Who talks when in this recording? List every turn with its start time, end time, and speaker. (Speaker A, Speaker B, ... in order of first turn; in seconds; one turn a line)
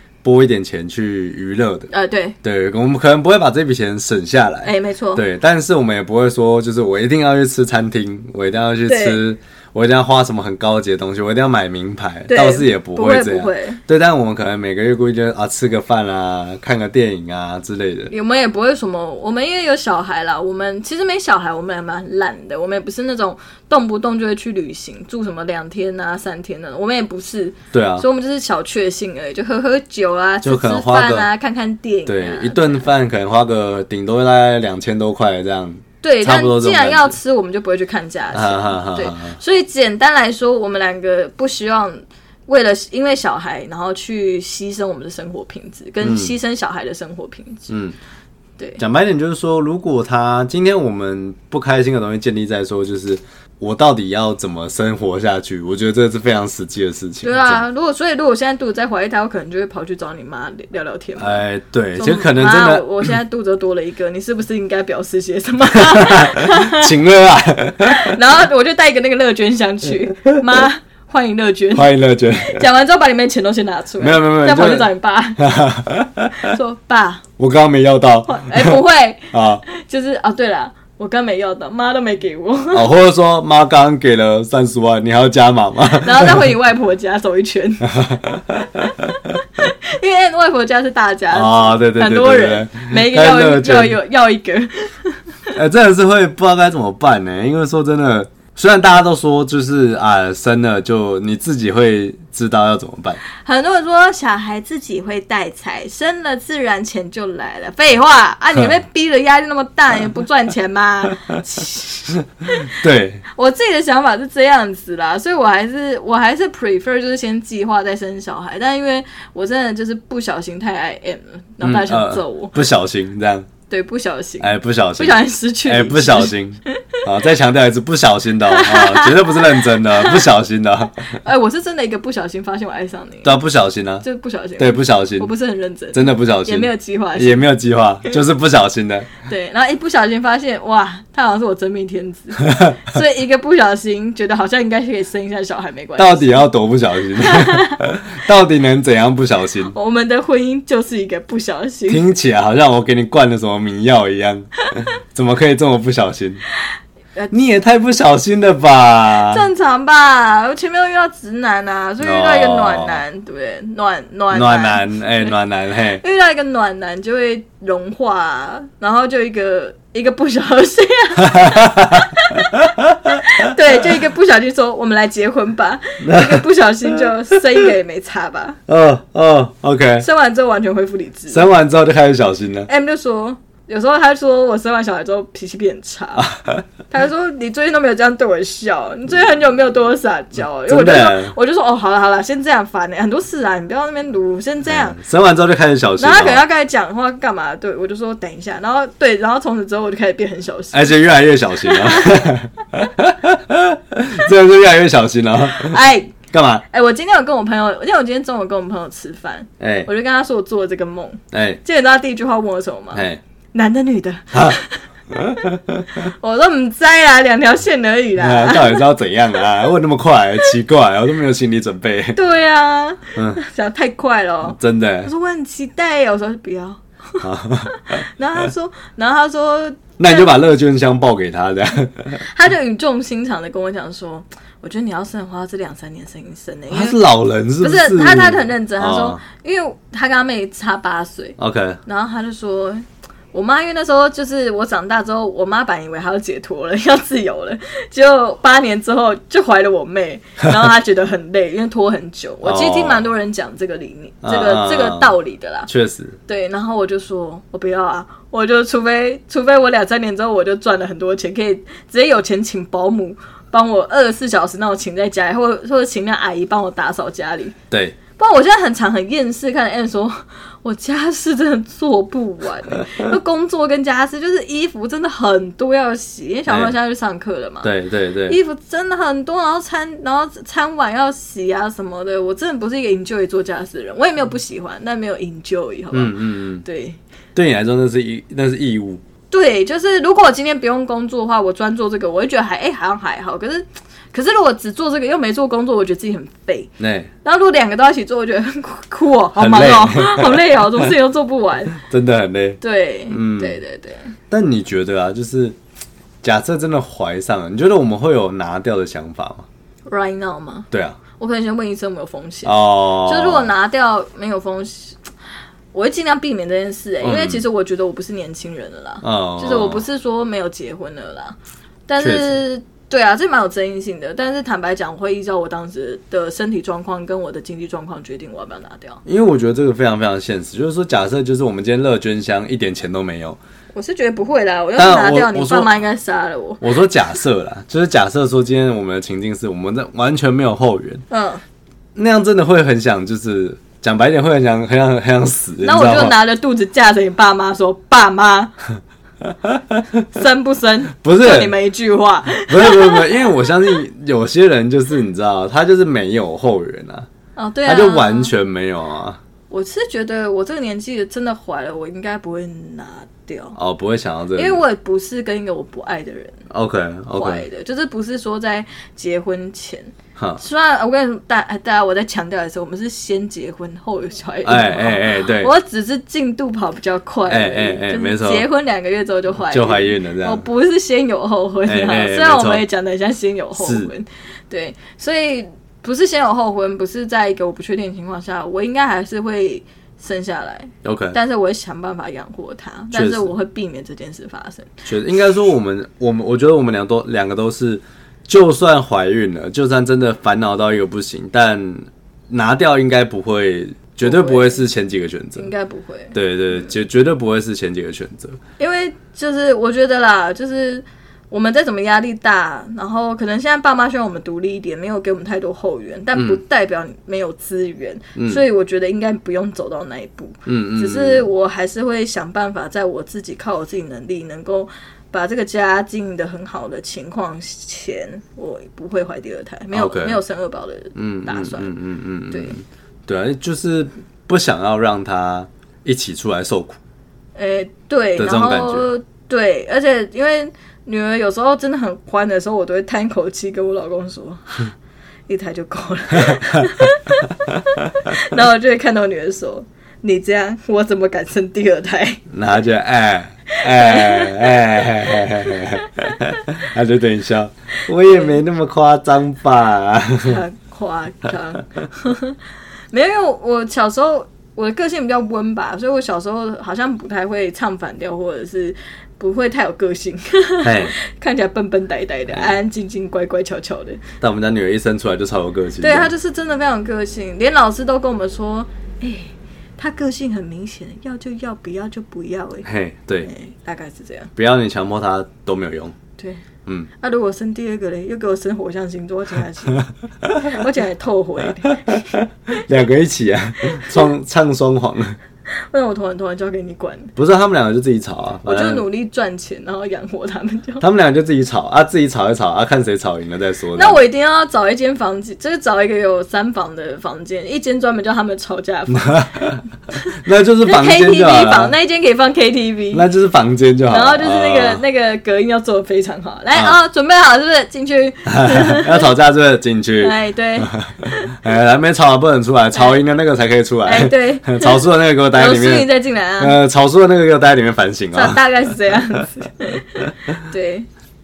Speaker A: 0.2-1.9
Speaker B: 1.9-2.4
Speaker A: 2.4-18.1
Speaker B: 4.6-5.2
Speaker B: 8.8-9.2
Speaker B: 12.3-13.8
Speaker B: 18.1-32.9
Speaker A: 27.7-28.1
Speaker A: 30.4-31.3
Speaker A: 32.0-37.1
Speaker B: 36.0-47.7
Speaker A: 38.3-39.4
Speaker A: 46.0-46.3
Speaker A: 47.7-48.0
Speaker A: 48.8-57.6
Speaker B: 57.2-61.4
Speaker A: 61.2-63.1
Speaker B: 62.0-66.9
Speaker A: 65.7-68.2
Speaker B: 67.8-75.4
Speaker A: 71.7-72.6
Speaker A: 74.0-76.5
Speaker B: 76.4-77.2
Speaker A: 77.4-78.8
Speaker B: 78.3-82.8
Speaker A: 79.3-79.6
Speaker A: 82.7-86.5
Speaker B: 86.0-88.2
Speaker A: 87.9-89.1
Speaker B: 88.8-95.5
Speaker A: 91.3-94.0
Speaker A: 95.5-103.2
Speaker B: 103.4-112.7
Speaker A: 112.7-113.2
Speaker B: 113.3-122.7
Speaker A: 121.6-123.5
Speaker B: 123.7-127.0
Speaker A: 124.4-131.1
Speaker B: 128.5-130.3
Speaker B: 131.1-133.4
Speaker A: 133.2-134.0
Speaker B: 134.0-137.4
Speaker A: 134.6-135.3
Speaker A: 135.9-139.1
Speaker B: 139.2-146.4
Speaker A: 142.5-142.8
Speaker A: 146.0-149.7
Speaker B: 147.2-147.8
Speaker B: 149.7-152.1
Speaker A: 151.9-156.4
Speaker A: 157.3-159.4
Speaker B: 159.2-165.3
Speaker A: 162.0-163.0
Speaker A: 164.3-166.0
Speaker B: 166.0-172.6
Speaker A: 171.2-173.5
Speaker B: 173.2-178.6
Speaker A: 176.0-177.7
Speaker A: 178.7-180.1
Speaker B: 180.0-181.5
Speaker A: 181.3-182.7
Speaker B: 182.7-186.3
Speaker A: 186.2-186.6
Speaker B: 186.9-195.0
Speaker A: 190.7-191.3
Speaker A: 194.7-196.4
Speaker B: 196.0-201.0
Speaker A: 200.7-206.6
Speaker B: 201.6-202.3
Speaker B: 205.6-206.2
Speaker B: 206.7-214.8
Speaker A: 209.6-209.9
Speaker A: 211.3-211.6
Speaker A: 212.9-213.2
Speaker A: 214.3-214.6
Speaker A: 215.1-216.1
Speaker B: 216.0-218.8
Speaker A: 218.2-222.2
Speaker B: 222.1-230.3
Speaker A: 224.5-225.1
Speaker A: 227.2-228.0
Speaker A: 230.0-232.2
Speaker B: 232.2-237.0
Speaker A: 236.7-239.2
Speaker B: 237.6-255.7
Speaker A: 241.4-241.8
Speaker A: 252.4-253.0
Speaker A: 254.2-255.1
Speaker A: 255.7-256.2
Speaker B: 256.3-267.5
Speaker A: 267.7-268.0
Speaker B: 268.1-277.7
Speaker A: 276.5-276.7
Speaker A: 277.6-278.4
Speaker B: 278.3-287.0
Speaker A: 285.9-286.6
Speaker A: 287.3-289.0
Speaker B: 289.3-296.7
Speaker A: 296.8-297.1
Speaker B: 297.2-301.8
Speaker A: 299.3-300.9
Speaker A: 301.8-303.6
Speaker B: 302.6-304.1
Speaker A: 304.3-305.6
Speaker A: 306.2-309.5
Speaker B: 309.9-315.0
Speaker A: 310.7-311.0
Speaker A: 312.4-313.5
Speaker B: 315.7-329.0
Speaker A: 317.0-317.4
Speaker A: 319.0-319.8
Speaker A: 322.0-322.4
Speaker A: 329.0-333.4
Speaker B: 333.7-336.6
Speaker A: 334.8-335.7
Speaker A: 336.6-341.0
Speaker B: 341.1-341.4
Speaker A: 341.9-346.1
Speaker B: 345.6-348.5
Speaker A: 349.4-350.0
Speaker B: 350.1-353.4
Speaker A: 351.0-351.6
Speaker A: 352.5-357.1
Speaker B: 357.4-358.3
Speaker A: 357.6-359.2
Speaker B: 359.5-363.6
Speaker A: 363.6-364.6
Speaker B: 364.4-366.4
Speaker A: 366.5-367.4
Speaker B: 367.1-394.7
Speaker A: 374.4-375.5
Speaker A: 377.3-378.5
Speaker A: 379.5-380.4
Speaker A: 381.6-382.6
Speaker A: 383.6-383.9
Speaker A: 390.8-391.2
Speaker A: 392.9-393.3
Speaker A: 394.9-405.5
Speaker B: 404.0-404.6
Speaker B: 405.4-406.7
Speaker A: 406.1-408.4
Speaker B: 408.6-431.7
Speaker A: 416.1-416.4
Speaker A: 418.1-418.4
Speaker A: 420.4-421.3
Speaker A: 429.7-430.2
Speaker A: 430.9-436.8
Speaker B: 437.4-444.7
Speaker A: 438.2-438.9
Speaker B: 445.3-452.2
Speaker A: 452.3-460.4
Speaker B: 453.5-456.4
Speaker B: 458.0-458.4
Speaker B: 460.2-462.4
Speaker B: 462.9-474.0
Speaker A: 470.6-470.9
Speaker A: 472.3-472.6
Speaker A: 474.2-476.1
Speaker B: 475.8-482.7
Speaker A: 482.6-483.3
Speaker B: 483.2-484.3
Speaker A: 484.4-485.9
Speaker B: 486.2-486.4
Speaker B: 487.0-492.1
Speaker A: 491.9-495.2
Speaker B: 495.6-497.1
Speaker A: 497.1-498.8
Speaker B: 498.4-500.8
Speaker A: 500.8-504.0
Speaker B: 503.8-509.3
Speaker A: 508.9-509.6
Speaker B: 509.9-513.0
Speaker A: 510.2-511.7
Speaker A: 512.9-514.8
Speaker B: 513.9-519.1
Speaker A: 518.3-529.0
Speaker B: 520.0-521.4
Speaker B: 522.7-523.0
Speaker B: 523.8-526.6
Speaker B: 528.1-530.9